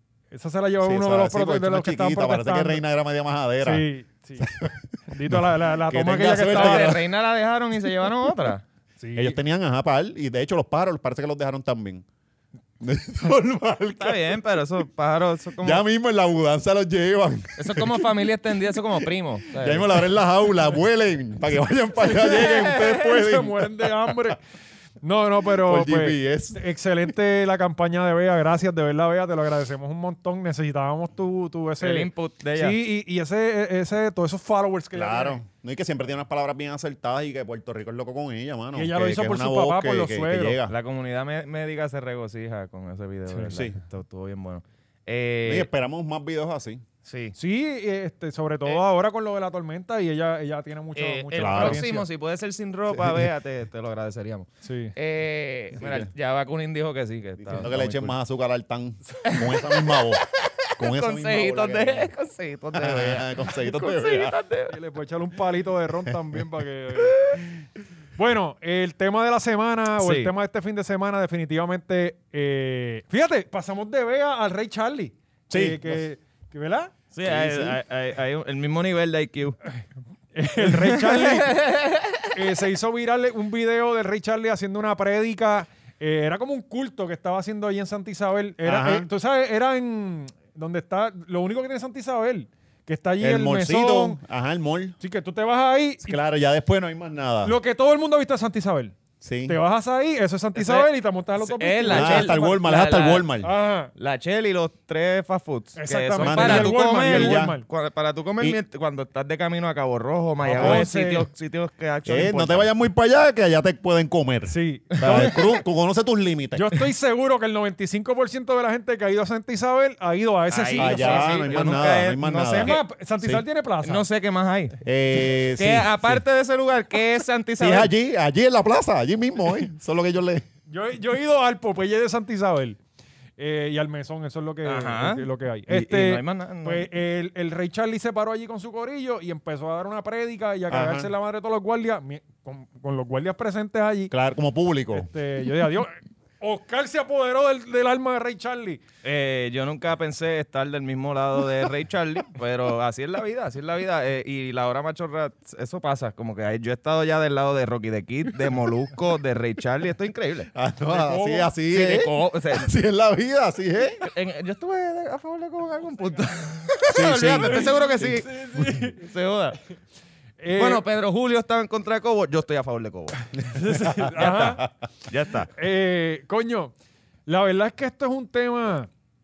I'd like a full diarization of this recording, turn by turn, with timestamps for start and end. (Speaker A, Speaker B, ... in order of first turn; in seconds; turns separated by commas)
Speaker A: 0.3-2.8, Speaker B: 0.8-3.9, Speaker A: 3.6-4.5, Speaker B: 4.4-7.0, Speaker A: 5.1-7.0, Speaker C: 6.5-8.6, Speaker A: 9.0-9.4, Speaker B: 9.1-12.0, Speaker B: 12.8-14.3, Speaker C: 14.0-15.8, Speaker B: 15.6-18.1, Speaker C: 17.6-20.0, Speaker B: 19.5-24.1, Speaker A: 22.1-24.4, Speaker A: 25.0-35.4, Speaker B: 25.6-26.6, Speaker C: 31.8-32.8, Speaker B: 34.9-40.7, Speaker A: 38.7-40.6, Speaker C: 40.7-45.7, Speaker B: 45.5-46.8, Speaker C: 47.0-47.3, Speaker A: 47.4-52.0, Speaker C: 50.9-58.1, Speaker B: 51.4-51.8, Speaker B: 52.9-53.3, Speaker A: 54.6-54.9, Speaker B: 55.8-56.1, Speaker B: 57.4-60.2, Speaker C: 59.2-64.7, Speaker B: 60.8-62.1, Speaker B: 62.7-64.4, Speaker A: 64.7-67.4, Speaker A: 68.2-76.9, Speaker C: 70.0-70.3, Speaker B: 75.5-76.0, Speaker C: 77.1-79.6, Speaker B: 77.2-77.8, Speaker A: 80.3-81.6, Speaker C: 80.6-82.3, Speaker A: 82.3-94.2, Speaker B: 88.6-89.1, Speaker B: 93.2-95.0, Speaker A: 95.0-96.2, Speaker B: 96.0-97.5, Speaker A: 97.4-98.9, Speaker B: 99.2-99.6, Speaker A: 99.5-102.5, Speaker C: 100.5-103.3, Speaker B: 101.9-103.5, Speaker A: 103.4-103.9, Speaker C: 104.0-112.7, Speaker A: 105.8-107.6, Speaker B: 106.2-107.6, Speaker A: 110.4-111.3, Speaker B: 110.5-110.9, Speaker B: 112.0-116.7, Speaker A: 114.5-115.5, Speaker C: 115.0-115.3, Speaker A: 116.5-121.7, Speaker C: 120.5-122.8, Speaker B: 120.8-123.4, Speaker A: 122.6-124.0, Speaker C: 123.8-124.8, Speaker B: 124.8-126.2, Speaker C: 125.5-127.9, Speaker B: 127.6-130.4, Speaker A: 130.7-132.8, Speaker A: 133.4-144.1, Speaker C: 134.6-136.9, Speaker B: 140.7-141.1, Speaker B: 144.1-145.1, Speaker A: 144.9-148.8, Speaker C: 149.0-160.5, Speaker B: 160.5-164.0, Speaker A: 160.9-161.5, Speaker C: 161.7-162.7, Speaker C: 164.0-168.4, Speaker B: 166.9-168.2, Speaker A: 167.5-169.0, Speaker C: 168.9-169.6, Speaker A: 170.4-170.8, Speaker C: 170.6-173.3, Speaker A: 173.5-174.6, Speaker B: 173.5-174.7, Speaker C: 174.2-174.6, Speaker C: 175.1-175.5, Speaker A: 175.5-176.7, Speaker A: 177.2-178.9